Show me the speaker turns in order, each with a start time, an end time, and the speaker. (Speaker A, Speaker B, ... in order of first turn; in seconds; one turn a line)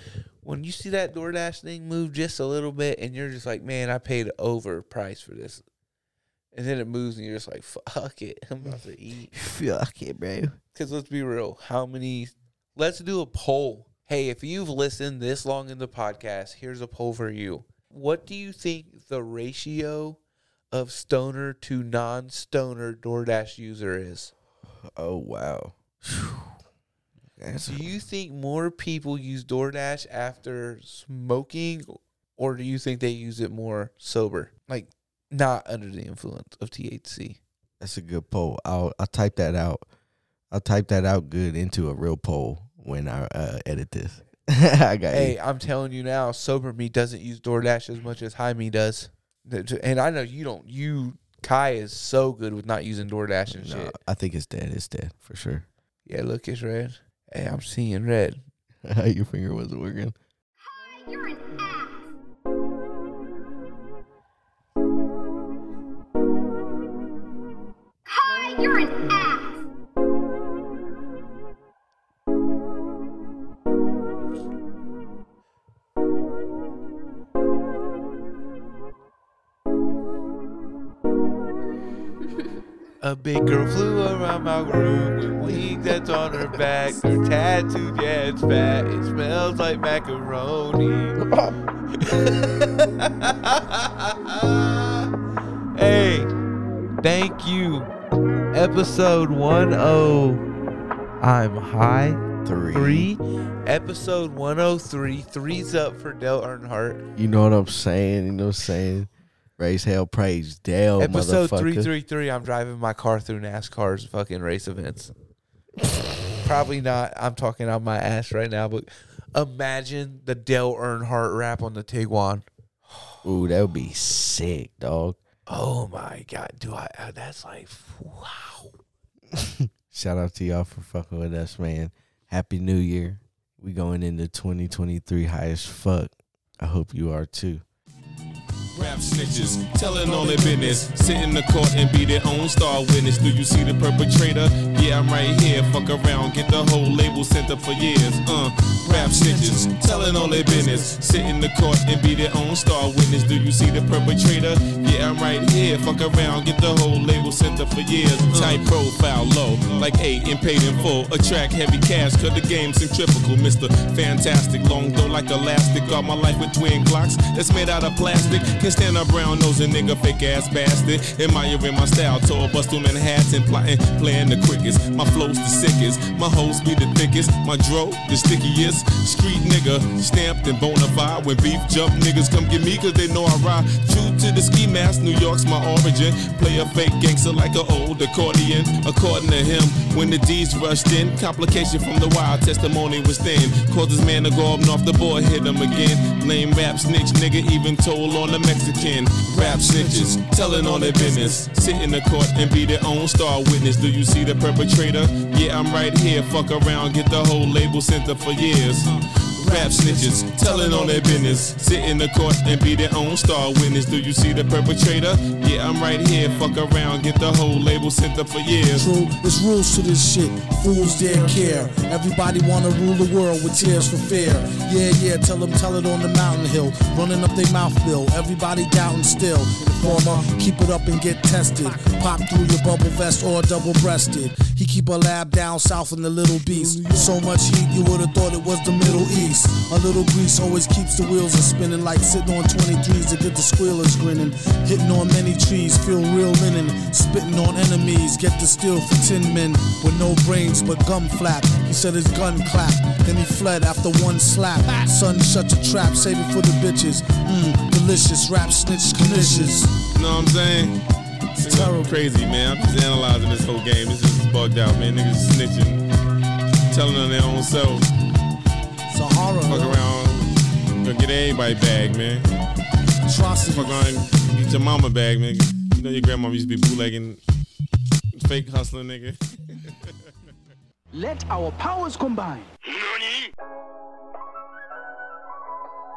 Speaker A: 0.4-5.6
Speaker A: 6.5-9.3
Speaker B: 9.3-10.6
Speaker A: 10.8-20.2
Speaker A: 20.7-24.3
Speaker B: 24.9-26.6
Speaker B: 27.4-28.0
Speaker A: 27.7-37.4
Speaker B: 37.8-39.9
Speaker B: 40.5-45.4
Speaker A: 45.1-54.0
Speaker B: 53.5-55.7
Speaker A: 56.1-58.4
Speaker B: 58.8-60.2
Speaker C: 61.0-61.6
Speaker C: 68.2-69.4
Speaker A: 83.0-91.2
Speaker B: 91.2-91.6
Speaker A: 92.0-95.1
Speaker A: 95.8-96.3
Speaker A: 97.0-97.9
Speaker A: 98.5-100.5
Speaker A: 101.2-102.2
Speaker B: 102.4-103.1
Speaker A: 102.7-107.0
Speaker B: 107.2-111.9
Speaker A: 111.0-115.1
Speaker A: 116.4-122.5
Speaker B: 123.2-125.2
Speaker A: 125.5-128.7
Speaker B: 129.3-137.6
Speaker D: 138.8-218.9
Speaker E: 140.0-140.8
Speaker E: 148.9-151.0
Speaker E: 199.3-201.5
Speaker E: 209.4-211.5
Speaker E: 218.7-259.8
Speaker D: 259.8-260.8
Speaker D: 261.4-265.8
Speaker E: 261.4-262.0
Speaker D: 266.7-267.9
Speaker E: 268.9-269.8
Speaker D: 269.5-272.2
Speaker E: 273.1-273.9
Speaker D: 273.5-277.2
Speaker D: 278.1-279.6
Speaker F: 280.9-283.3